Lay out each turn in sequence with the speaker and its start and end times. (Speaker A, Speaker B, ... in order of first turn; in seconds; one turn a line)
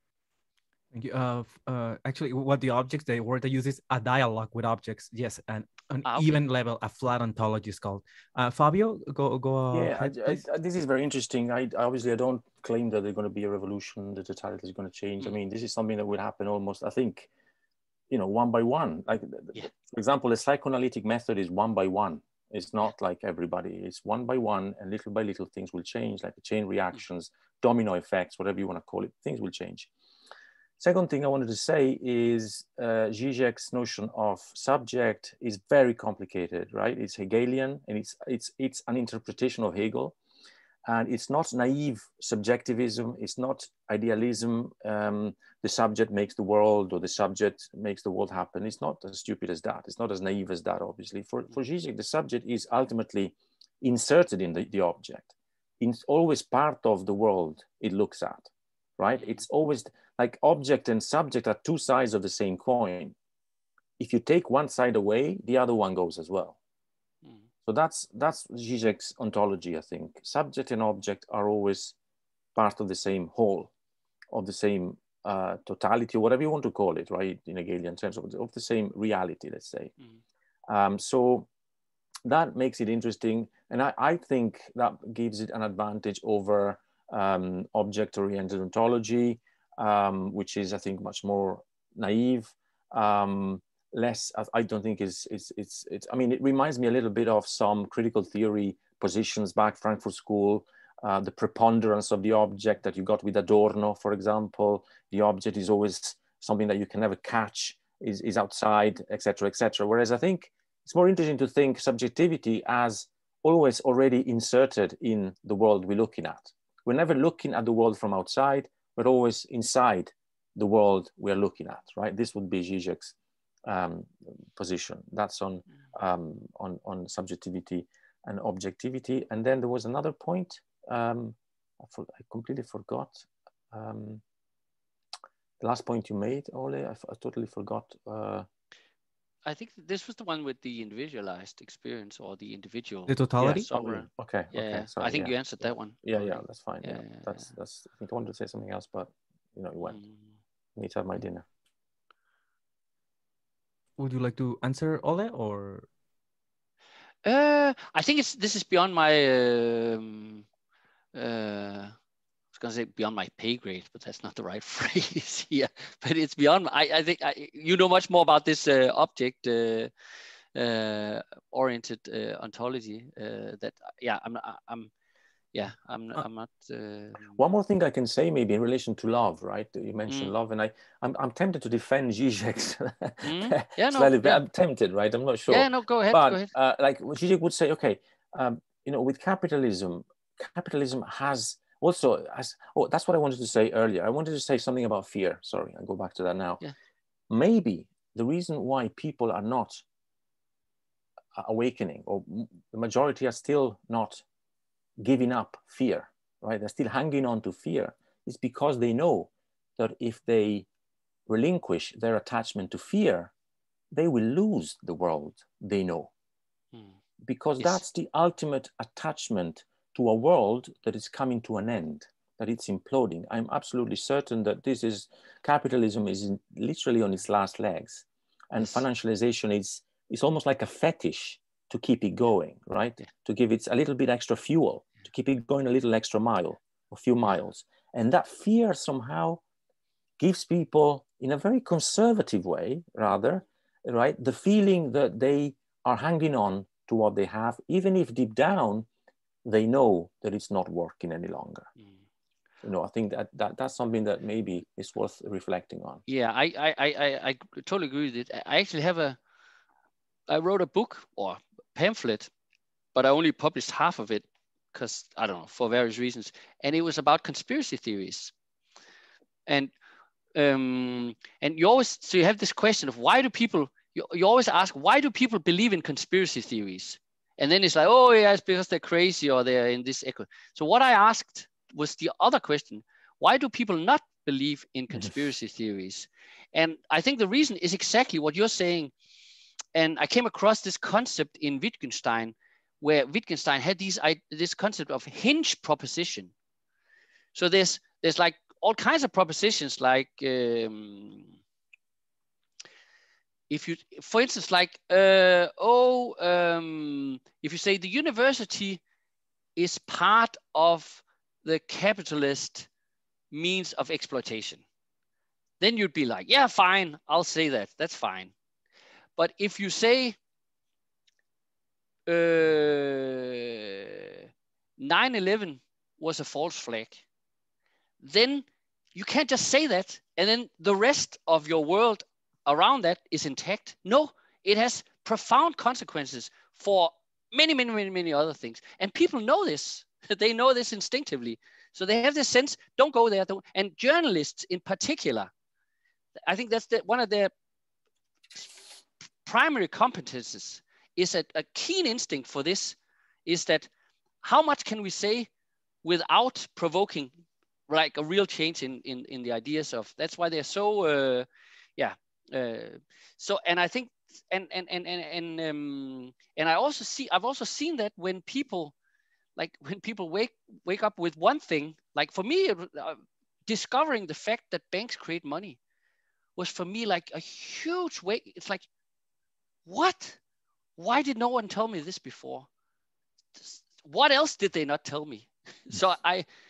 Speaker A: 0.9-10.4
Speaker B: 6.0-6.4
Speaker C: 9.7-17.3
Speaker C: 18.1-29.9
Speaker C: 30.8-40.1
Speaker C: 40.8-63.1
Speaker C: 64.0-66.6
Speaker C: 67.7-71.9
Speaker C: 72.5-73.7
Speaker C: 74.3-79.9
Speaker C: 80.7-81.5
Speaker C: 82.2-123.1
Speaker C: 123.6-134.2
Speaker C: 135.6-138.5
Speaker B: 139.4-147.5
Speaker A: 143.1-143.7
Speaker C: 143.4-150.0
Speaker B: 149.8-150.2
Speaker C: 150.8-151.4
Speaker A: 154.0-155.9
Speaker B: 157.2-160.4
Speaker B: 161.1-161.9
Speaker B: 162.5-169.9
Speaker B: 170.5-174.9
Speaker B: 175.5-177.4
Speaker C: 177.3-196.6
Speaker B: 180.1-180.3
Speaker B: 183.2-184.4
Speaker B: 185.5-186.5
Speaker C: 197.3-199.8
Speaker C: 201.3-204.2
Speaker C: 205.0-210.7
Speaker C: 211.3-213.3
Speaker C: 213.9-216.1
Speaker C: 217.2-239.4
Speaker C: 240.2-248.9
Speaker C: 249.4-251.7
Speaker C: 252.6-256.0
Speaker B: 256.1-259.2
Speaker B: 260.3-262.3
Speaker B: 262.9-268.3
Speaker B: 269.5-269.7
Speaker B: 270.3-288.9
Speaker B: 289.7-296.3
Speaker B: 297.3-301.3
Speaker B: 303.5-308.8
Speaker B: 309.6-312.7
Speaker B: 313.3-314.6
Speaker B: 315.6-318.3
Speaker B: 319.2-320.2
Speaker B: 322.1-324.3
Speaker B: 324.8-327.0
Speaker B: 328.0-345.3
Speaker B: 346.3-347.3
Speaker B: 348.3-348.6
Speaker B: 349.2-353.7
Speaker B: 354.2-355.3
Speaker B: 355.8-357.1
Speaker B: 357.7-368.7
Speaker B: 369.4-375.6
Speaker B: 376.4-378.6
Speaker B: 379.6-380.2
Speaker B: 380.8-382.5
Speaker B: 383.4-386.2